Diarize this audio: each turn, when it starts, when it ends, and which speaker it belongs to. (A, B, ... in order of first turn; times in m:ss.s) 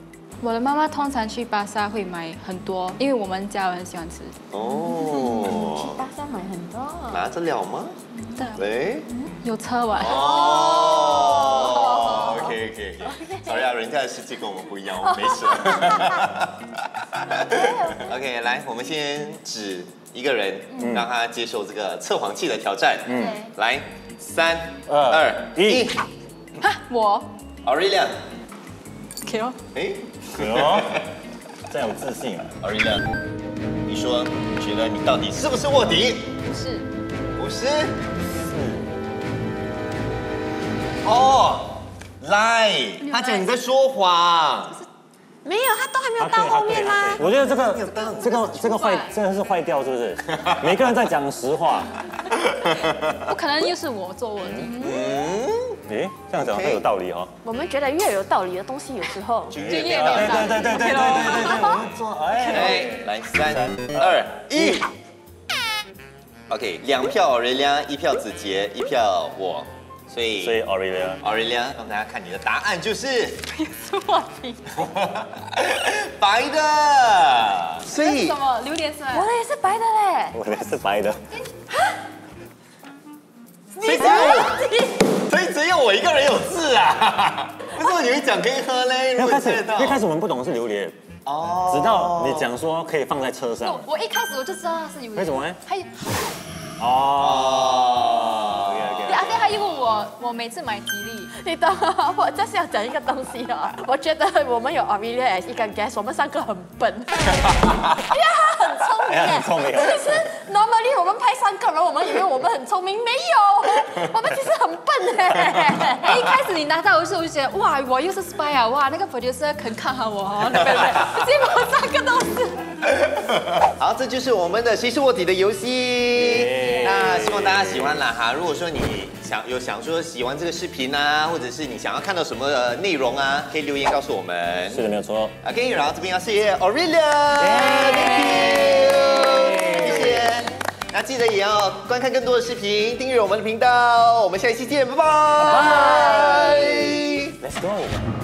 0:00.4-0:04.4 A
0:04.5-0:06.0 B
0:04.9-0:07.3 C
0:07.1-0:08.0 B
0:08.3-0:08.6 A
0:08.5-0:09.2 B
0:09.4-0:10.3 A
0:09.9-0:26.0 B
0:10.0-0:13.7 C
0:15.1-0:16.2 C
0:17.4-0:18.2 C
0:23.1-0:23.4 D
0:23.2-0:23.4 C
0:24.9-0:25.9 D
0:26.6-0:27.3 A
0:27.6-0:28.2 B
0:29.2-0:29.6 A
0:29.7-0:31.0 B
0:30.3-0:31.0 D
0:31.7-0:32.5 D
0:32.6-0:33.1 B
0:33.9-0:36.3 B
0:36.5-0:36.9 A
0:37.4-0:38.0 B
0:38.3-0:38.9 D
0:41.0-0:44.8 B
0:43.0-0:43.5 A
0:45.4-0:47.3 C
0:46.2-0:52.0 D
0:47.5-0:48.6 B
0:48.2-0:49.2 A
0:52.5-0:52.9 B
0:53.1-0:55.1 A
0:54.4-0:54.7 D
0:54.8-0:55.8 B
0:55.9-0:57.3 D
0:56.4-0:56.8 B
0:57.4-1:00.6 C
0:59.5-1:01.4 B
0:59.7-1:01.9 A
0:59.7-1:04.8 D
1:02.4-1:04.9 B
1:06.5-1:10.6 B
1:10.4-1:11.2 D
1:11.2-1:13.4 B
1:13.5-1:14.6 A
1:14.7-1:18.4 B
1:17.9-1:19.3 A
1:19.1-1:20.4 C
1:20.3-1:21.2 D
1:23.8-1:25.0 C
1:23.8-1:30.0 B
1:24.1-1:24.4 A
1:29.2-1:31.0 D
1:31.3-1:32.5 B
1:31.7-1:33.9 D
1:33.6-1:35.9 A
1:35.2-1:35.6 D
1:36.8-1:39.4 D
1:37.2-1:39.7 B
1:39.0-1:41.3 A
1:41.4-1:56.2 C
1:49.1-1:50.0 D
1:56.0-2:02.8 A
2:03.6-2:14.8 B
2:06.2-2:08.1 D
2:14.7-2:15.4 D
2:15.4-2:27.4 B
2:17.4-2:20.2 D
2:19.4-2:19.8 C
2:25.4-2:28.1 D
2:25.7-2:26.3 A